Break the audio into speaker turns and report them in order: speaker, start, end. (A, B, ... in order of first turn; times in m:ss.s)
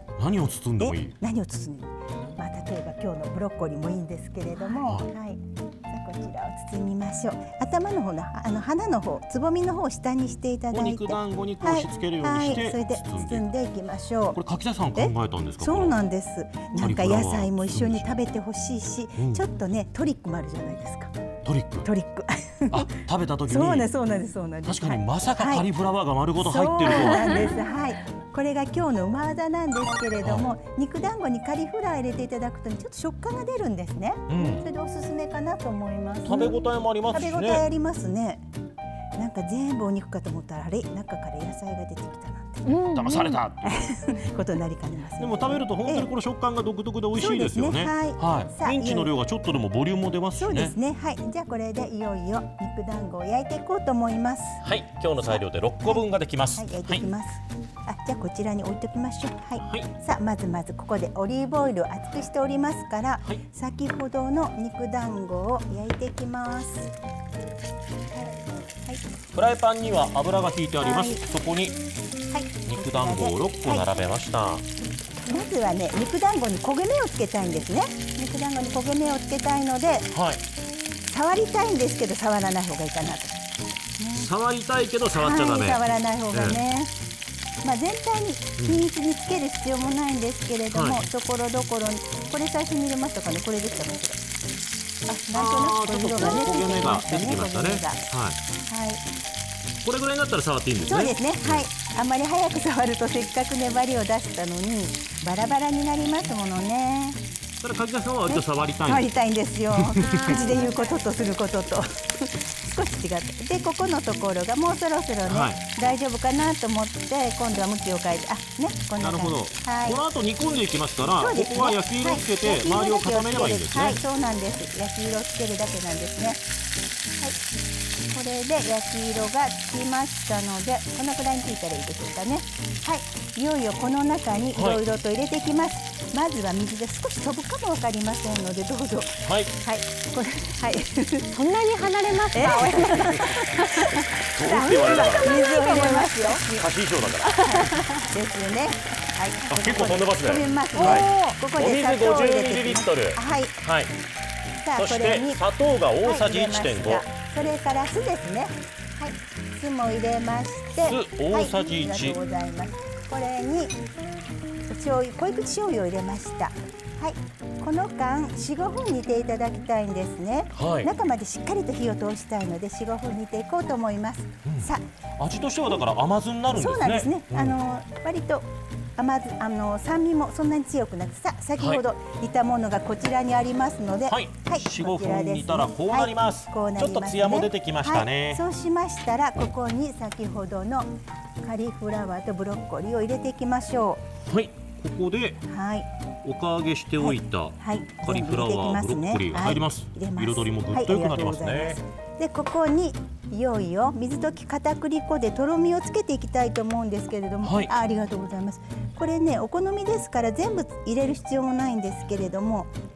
0:00.2-0:01.1 A
0:00.8-0:14.4 B
0:10.7-0:13.5 A
0:14.3-0:16.0 A
0:15.0-0:21.1 B
0:16.7-0:18.1 A
0:19.2-0:19.4 A
0:21.4-0:21.9 A
0:21.8-0:22.9 B
0:22.7-0:23.9 A
0:23.5-0:25.6 B
0:24.6-0:27.5 A
0:26.4-0:36.6 B
0:27.1-0:27.5 C
0:34.3-0:34.7 A
0:36.2-0:37.6 A
0:37.1-0:38.4 B
0:39.2-0:42.9 B
0:42.6-0:43.4 C
0:42.9-0:44.0 A
0:43.6-0:46.1 B
0:45.2-0:50.7 A
0:47.1-0:49.1 B
0:50.4-0:54.6 B
0:54.6-0:57.0 A
0:55.2-1:06.9 B
0:59.6-0:59.9 A
1:09.3-1:11.8 A
1:10.8-1:11.3 B
1:12.3-1:13.9 B
1:12.7-1:14.6 A
1:15.2-1:20.1 B
1:20.1-1:20.4 A
1:21.1-1:23.4 B
1:24.0-1:24.3 B
1:24.1-1:26.6 A
1:25.2-1:26.9 B
1:27.6-1:34.2 B
1:30.7-1:31.0 A
1:35.1-1:38.1 B
1:35.3-1:38.4 A
1:38.7-1:39.0 B
1:39.8-1:41.7 A
1:40.8-1:47.2 B
1:47.6-1:49.1 A
1:48.3-2:00.0 B
1:49.7-1:50.3 A
1:50.1-1:50.8 C
1:55.3-1:55.6 A
1:59.0-2:04.0 A
2:01.2-2:06.4 B
2:08.1-2:21.3 B
2:14.5-2:14.8 A
2:19.2-2:19.5 A
2:21.3-2:26.6 C
2:22.3-2:26.5 B
2:24.1-2:25.5 A
2:26.6-2:27.3 A
2:27.2-2:28.0 C
2:27.4-2:33.6 B
2:29.5-2:33.9 A
2:30.7-2:31.4 C
2:34.6-2:35.4 B
2:34.8-2:37.0 A
2:36.0-2:43.8 B
2:40.8-2:42.2 A
2:44.6-2:54.8 B
2:50.5-2:50.9 A
2:54.4-2:57.6 A
2:56.5-2:58.4 B
2:59.0-3:14.0 B
3:01.6-3:01.8 A
3:04.1-3:08.4 A
3:14.2-3:15.4 A
3:15.4-3:15.9 B
3:16.2-3:21.8 A
3:17.0-3:32.7 B
3:27.4-3:27.8 A